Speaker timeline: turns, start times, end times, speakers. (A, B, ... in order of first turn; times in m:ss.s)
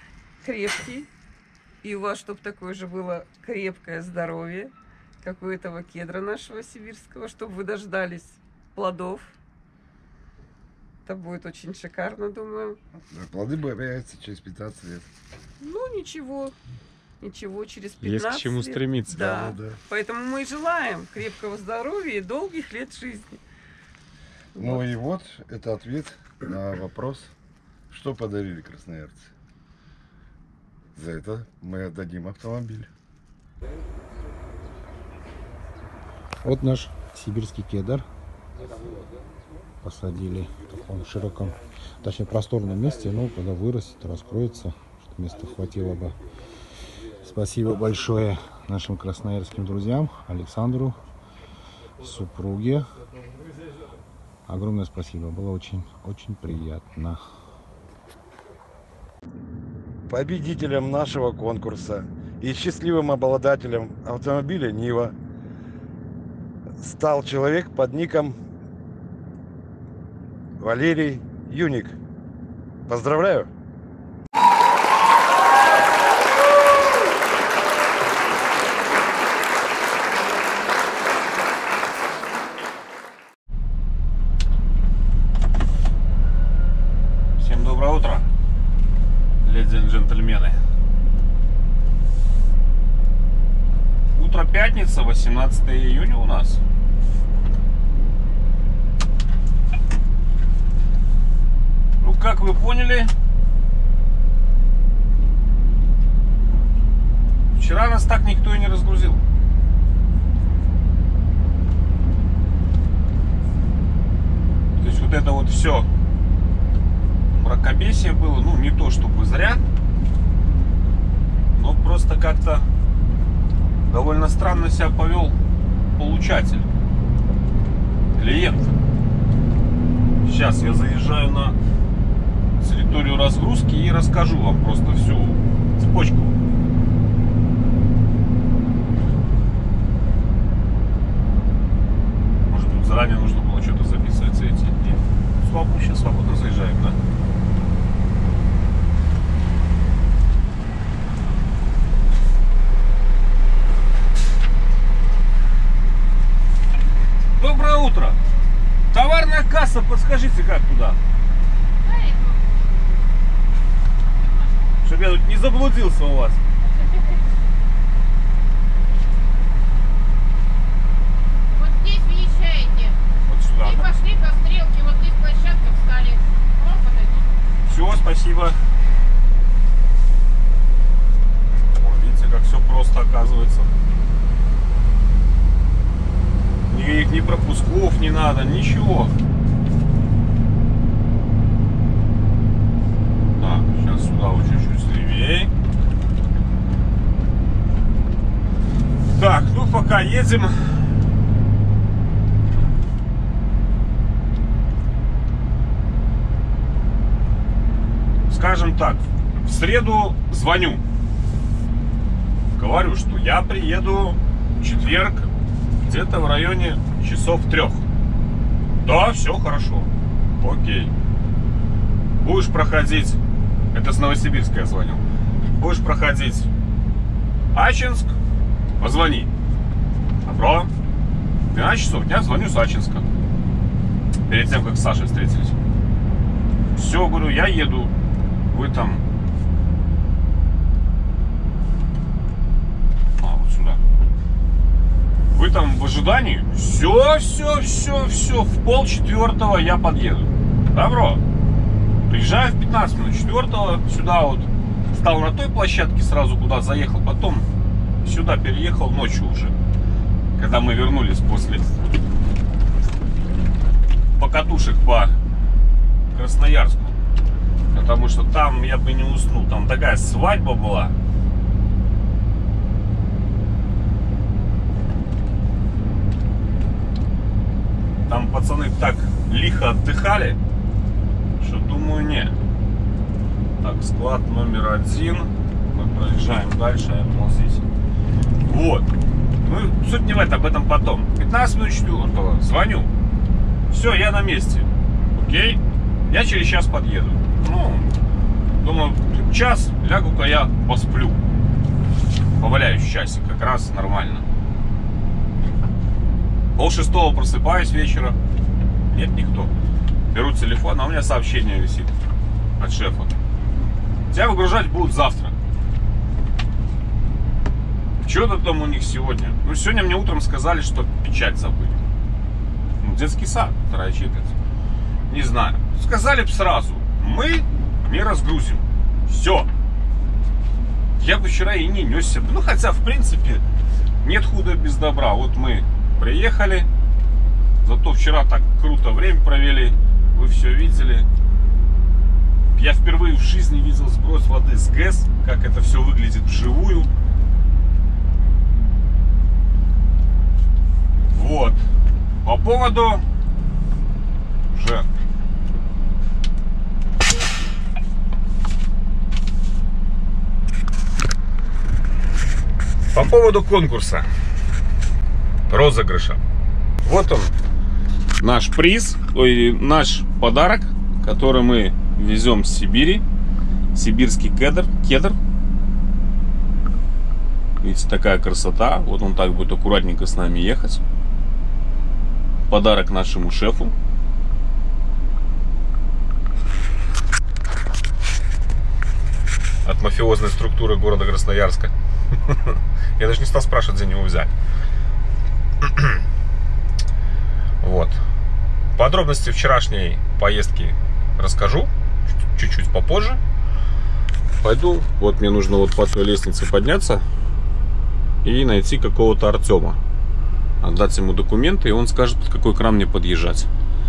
0:00.4-0:01.1 A
0:01.8-0:09.3 A
0:11.1-0:12.8 A
0:13.0-0:15.1 B
0:15.6-0:16.6 A
0:17.2-0:23.4 A
0:18.0-0:19.2 C
0:19.1-0:19.8 B
0:24.6-0:27.3 B
0:24.6-0:24.9 A
0:27.9-0:29.3 B
0:31.0-0:32.9 B
0:36.4-0:38.1 D
0:39.8-0:46.2 D
0:47.0-0:51.0 D
0:52.0-0:52.9 D
0:54.5-0:57.2 D
1:00.1-1:05.2 B
1:06.8-1:08.4 B
1:10.6-1:12.0 B
1:12.9-1:13.5 B
1:27.4-1:28.2 C
1:29.4-1:30.6 C
1:34.1-1:36.6 C
1:42.0-1:43.1 C
1:47.6-1:49.2 C
1:54.8-1:55.9 C
1:57.3-1:59.6 C
2:01.5-2:02.7 C
2:03.9-2:05.4 C
2:06.0-2:06.7 C
2:08.2-2:08.8 C
2:10.2-2:11.6 C
2:12.6-2:16.4 C
2:22.5-2:27.0 C
2:37.4-2:38.2 C
2:38.9-2:41.0 C
2:41.8-2:43.0 E
2:44.2-2:44.6 E
2:44.8-2:46.4 C
2:46.7-2:47.2 E
2:51.5-2:53.0 E
2:53.3-2:54.1 C
2:53.6-2:57.4 E
2:57.7-2:58.6 C
3:01.7-3:03.7 C
3:06.7-3:09.1 C
3:13.4-3:15.5 C
3:19.1-3:20.8 C
3:28.3-3:30.8 C
3:32.6-3:35.3 C
3:35.8-3:37.8 C
3:38.8-3:40.9 C
3:42.2-3:43.2 C
3:43.7-3:45.0 C
3:45.6-3:46.5 C
3:47.5-3:48.1 C
3:48.8-3:49.3 C
3:50.2-3:50.7 C
3:51.5-3:53.1 C
3:54.3-3:55.6 C
3:56.8-3:57.9 C
3:58.5-3:59.0 C
4:03.2-4:03.8 C
4:05.3-4:11.2 C
4:12.1-4:17.5 C
4:18.0-4:19.5 C
4:20.4-4:21.8 C
4:24.2-4:25.2 C
4:26.1-4:27.0 C
4:27.7-4:31.0 C
4:38.1-4:40.4 C
4:41.4-4:42.4 C
4:43.6-4:47.6 C
4:48.5-4:48.9 C
4:49.4-4:52.9 C
4:53.7-4:57.9 C
4:58.6-5:01.2 C
5:02.4-5:04.2 C
5:06.6-5:08.2 C
5:08.9-5:09.5 C
5:10.1-5:11.9 C
5:12.6-5:13.1 C
5:14.1-5:15.3 C
5:18.0-5:21.8 C
5:22.8-5:24.3 C
5:25.1-5:29.5 C
5:31.0-5:33.4 C
5:34.0-5:36.7 C
5:37.6-5:41.1 C
5:42.6-5:46.9 C
5:51.1-5:51.6 C
5:52.2-5:53.0 C
5:54.5-5:54.9 C
6:02.9-6:04.1 C
6:05.5-6:06.2 C
6:06.8-6:07.3 C
6:08.2-6:13.0 C
6:13.7-6:15.2 C
6:17.6-6:20.8 C
6:22.5-6:23.7 C
6:29.6-6:31.7 C
6:32.2-6:34.3 C
6:35.6-6:36.0 C
6:37.6-6:38.0 C
6:38.8-6:41.7 C
6:42.2-6:43.2 C
6:44.4-6:47.0 C
6:48.2-6:49.8 C
6:50.6-6:53.5 C